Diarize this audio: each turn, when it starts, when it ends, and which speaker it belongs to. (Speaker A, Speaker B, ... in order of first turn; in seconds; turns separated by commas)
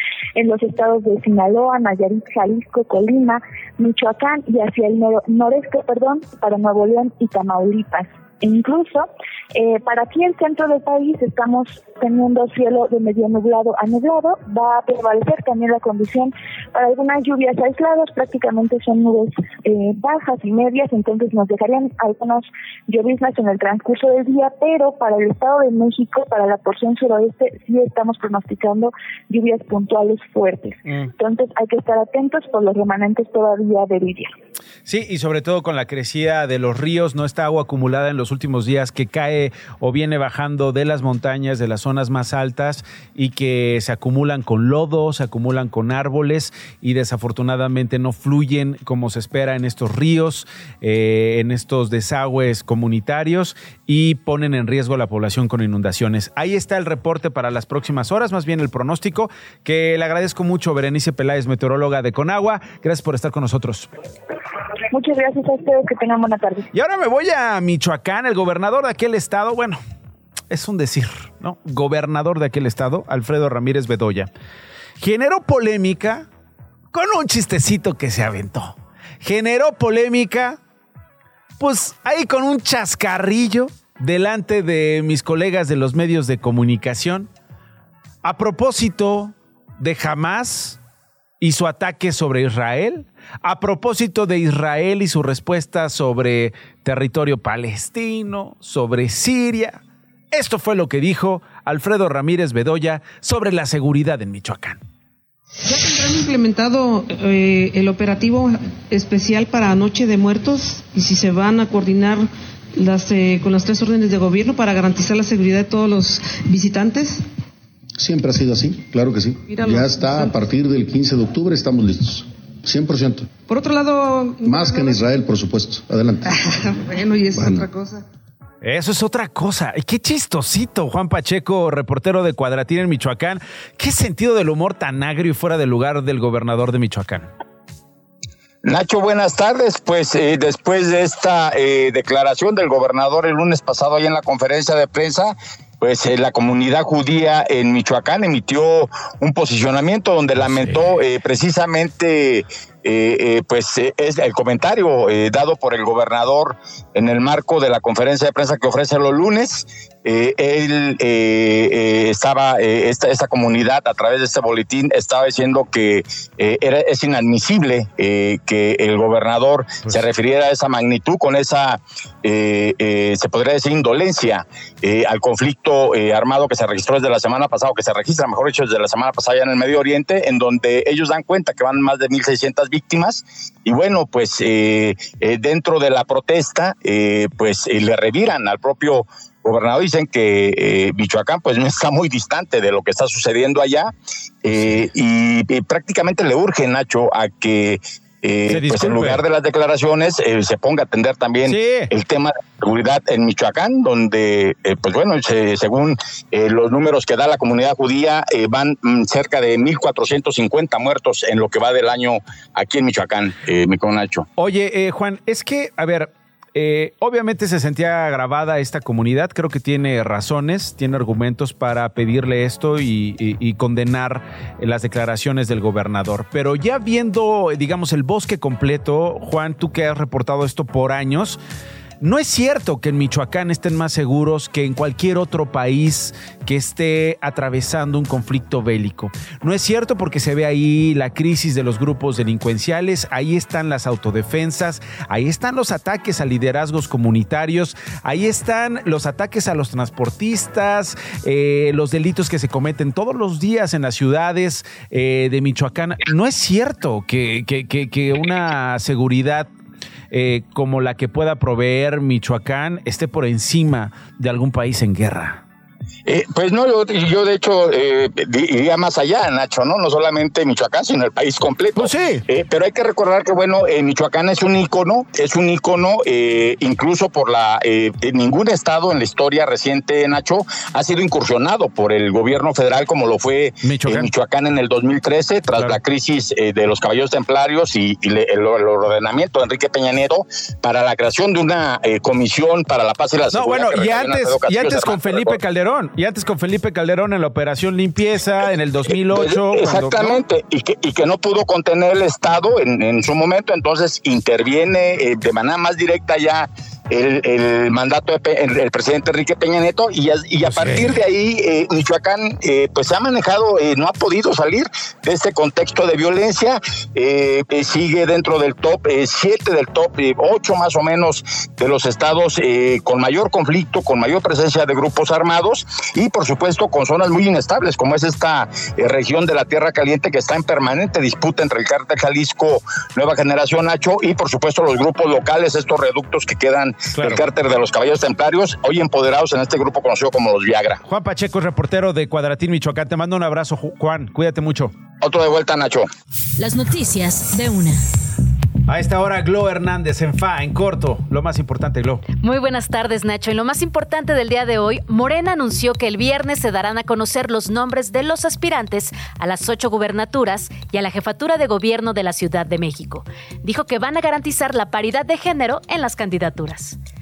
Speaker A: 0.3-34.3, Speaker B: 34.9-63.9, Speaker A: 64.9-66.7, Speaker B: 66.7-69.8, Speaker B: 70.5-74.3, Speaker B: 75.0-76.3, Speaker B: 76.9-80.6, Speaker B: 81.6-87.3, Speaker B: 88.2-90.8, Speaker B: 91.4-99.8, Speaker B: 100.3-104.8, Speaker C: 105.6-117.2, Speaker D: 118.0-123.3, Speaker C: 119.5-120.3, Speaker C: 123.5-125.1, Speaker D: 124.4-126.3, Speaker C: 126.2-128.0, Speaker D: 127.3-127.7, Speaker B: 128.6-137.3, Speaker E: 138.6-193.9, Speaker B: 150.4-150.8, Speaker E: 194.4-214.2, Speaker B: 198.5-199.2, Speaker B: 201.4-201.9, Speaker B: 214.4-231.4, Speaker B: 232.0-259.5, Speaker B: 260.1-265.4, Speaker E: 266.1-295.4, Speaker B: 271.8-272.2, Speaker B: 283.6-284.1, Speaker B: 285.5-285.8, Speaker B: 293.3-300.2, Speaker E: 299.1-340.8, Speaker B: 310.4-310.9, Speaker B: 336.9-337.2, Speaker B: 340.9-344.7, Speaker E: 345.0-345.9, Speaker F: 346.4-347.8, Speaker B: 348.7-352.0, Speaker F: 352.2-366.8